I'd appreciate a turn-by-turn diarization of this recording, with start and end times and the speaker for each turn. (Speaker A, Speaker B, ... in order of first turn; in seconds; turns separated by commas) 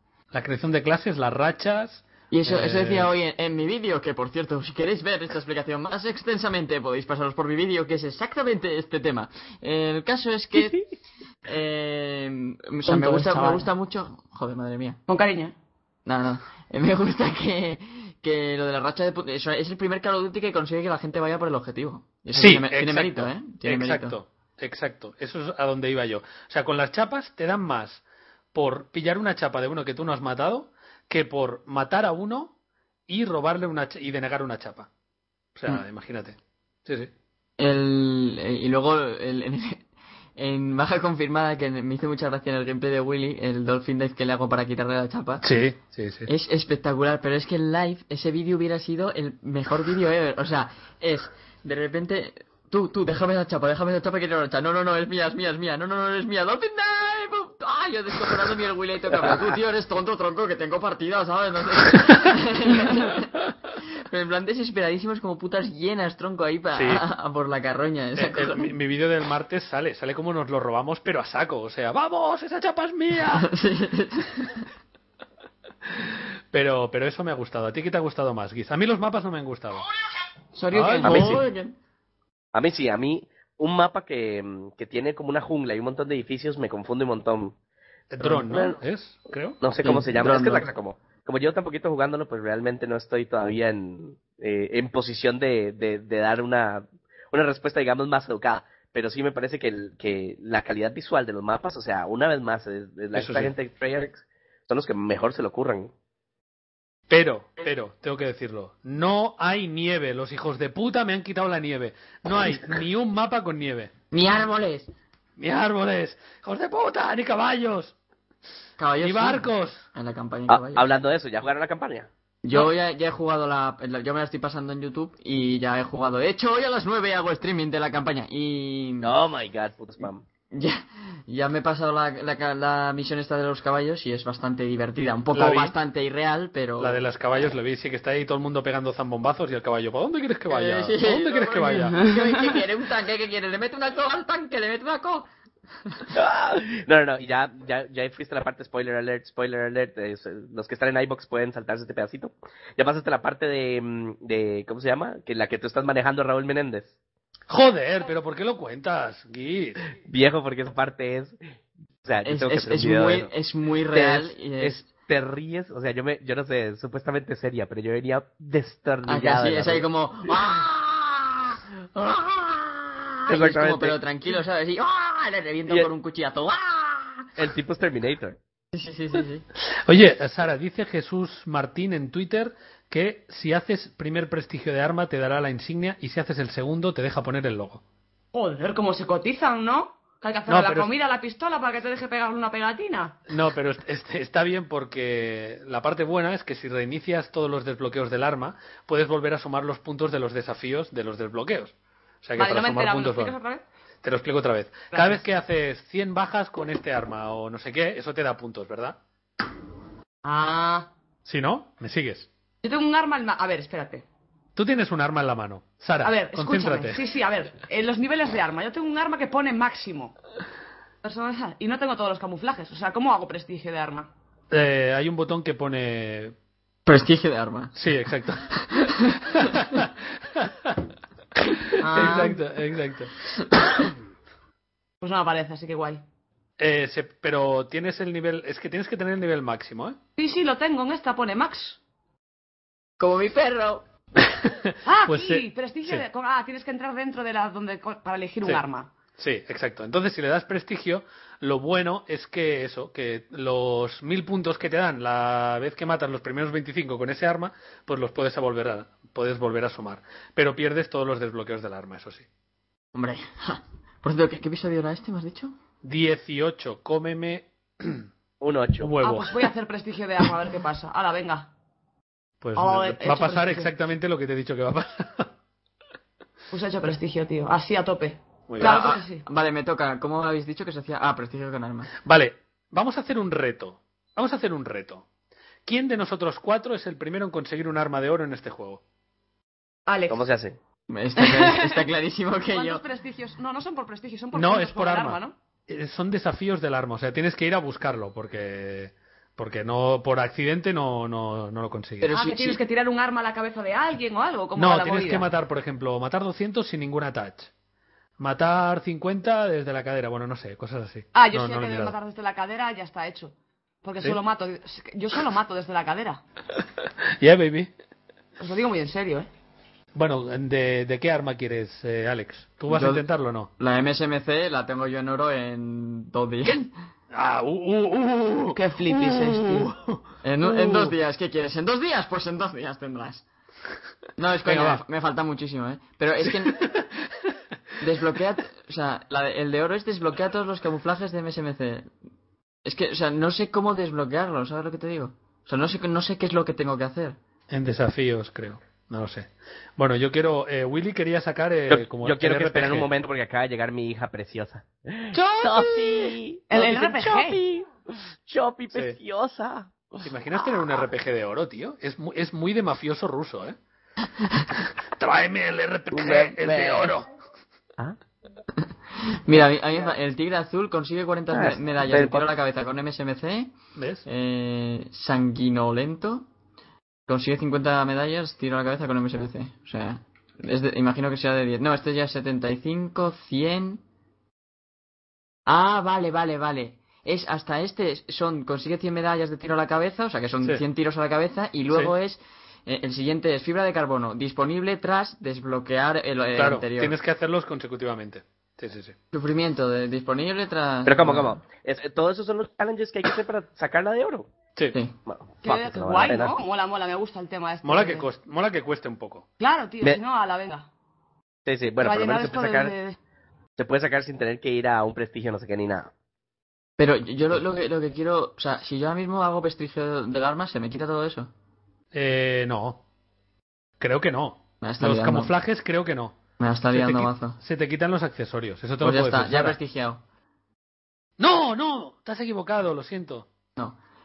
Speaker A: 0.3-3.1, Speaker B: 2.3-10.8, Speaker B: 11.4-15.0, Speaker C: 12.9-13.7, Speaker C: 15.1-15.5, Speaker B: 16.1-24.2, Speaker A: 22.3-28.0, Speaker A: 28.5-32.5, Speaker A: 33.1-34.9, Speaker A: 35.5-37.1, Speaker B: 37.6-39.9, Speaker B: 40.4-45.5, Speaker A: 45.4-46.3, Speaker B: 46.3-63.4, Speaker B: 64.0-68.7, Speaker A: 66.8-67.0, Speaker A: 68.2-73.5, Speaker B: 73.3-74.7, Speaker A: 76.0-79.8, Speaker C: 80.5-81.4, Speaker A: 80.7-81.3, Speaker B: 81.0-81.8, Speaker D: 81.0-81.4, Speaker D: 82.5-87.5, Speaker A: 88.1-89.6, Speaker D: 88.4-88.8, Speaker D: 89.6-105.9, Speaker B: 89.8-90.7, Speaker A: 103.2-103.5, Speaker A: 107.1-113.9, Speaker B: 114.1-114.9, Speaker A: 115.4-118.0, Speaker B: 118.8-120.9, Speaker A: 119.0-119.9, Speaker D: 120.5-122.1, Speaker B: 122.4-129.1, Speaker D: 129.0-130.2, Speaker B: 130.5-137.0, Speaker A: 135.3-135.8, Speaker A: 136.8-142.1, Speaker B: 140.5-145.3, Speaker D: 146.1-156.9, Speaker A: 157.5-159.8, Speaker D: 160.1-161.4, Speaker D: 162.0-163.3, Speaker B: 162.2-164.8, Speaker D: 163.9-169.9, Speaker B: 169.1-177.3, Speaker D: 173.3-174.0, Speaker D: 177.4-178.4, Speaker B: 178.7-179.5, Speaker A: 179.8-187.8, Speaker C: 188.3-193.2, Speaker A: 190.5-190.9, Speaker A: 193.3-203.4, Speaker C: 202.4-203.6, Speaker A: 204.0-209.0, Speaker C: 204.9-205.2, Speaker C: 210.2-210.9, Speaker A: 211.2-212.3, Speaker C: 212.6-214.1, Speaker A: 214.6-217.0, Speaker C: 216.0-220.2, Speaker C: 221.0-224.1, Speaker A: 224.5-226.3, Speaker B: 226.9-227.8, Speaker A: 227.8-228.5, Speaker B: 228.6-229.5, Speaker A: 229.2-230.8, Speaker A: 231.4-233.1, Speaker C: 231.8-232.4, Speaker C: 235.0-236.0, Speaker A: 236.6-240.0, Speaker C: 240.2-241.8, Speaker B: 243.0-243.8, Speaker A: 244.2-246.1, Speaker C: 244.8-248.9, Speaker A: 249.2-262.3, Speaker B: 262.9-265.5, Speaker A: 265.8-268.1, Speaker D: 268.4-268.9, Speaker A: 268.8-269.5, Speaker C: 269.0-271.5, Speaker A: 272.4-275.3, Speaker C: 272.6-273.7, Speaker C: 276.5-279.2, Speaker A: 278.5-279.0, Speaker B: 278.6-281.9, Speaker A: 282.1-285.1, Speaker A: 285.7-288.8, Speaker C: 289.9-290.2, Speaker D: 290.1-290.6, Speaker B: 290.9-292.8, Speaker C: 291.2-291.9, Speaker C: 292.5-295.4, Speaker A: 294.3-302.1, Speaker B: 302.0-302.6, Speaker C: 302.1-305.3, Speaker A: 304.6-307.5, Speaker A: 308.2-312.0, Speaker C: 311.1-316.2, Speaker A: 317.2-317.7, Speaker C: 318.4-319.3, Speaker A: 319.9-323.5, Speaker B: 322.7-323.1, Speaker B: 323.6-326.7, Speaker A: 327.1-330.9, Speaker C: 328.5-329.7, Speaker B: 330.2-333.2, Speaker B: 334.2-336.7, Speaker A: 334.4-334.8, Speaker A: 336.2-336.9, Speaker B: 337.8-341.9, Speaker B: 342.6-347.2, Speaker A: 347.5-352.9, Speaker D: 351.7-360.6, Speaker A: 355.1-356.1, Speaker C: 356.5-357.4, Speaker A: 360.0-363.6, Speaker A: 364.8-367.1, Speaker D: 365.9-366.9, Speaker B: 368.6-373.5, Speaker D: 371.3-372.2, Speaker A: 373.8-374.1, Speaker B: 374.1-376.3, Speaker B: 377.1-383.8, Speaker B: 385.5-396.9, Speaker A: 396.4-398.9, Speaker B: 399.1-401.4, Speaker D: 400.9-404.3, Speaker D: 405.1-406.4, Speaker C: 405.4-408.1, Speaker A: 407.6-409.2, Speaker C: 409.4-410.7, Speaker D: 411.5-412.7, Speaker C: 411.8-413.0, Speaker D: 413.6-415.9, Speaker B: 416.8-421.3, Speaker A: 421.9-422.8, Speaker A: 423.8-426.2, Speaker B: 424.6-425.3, Speaker B: 426.4-427.4, Speaker A: 426.7-429.6, Speaker B: 428.8-430.0, Speaker A: 431.2-433.3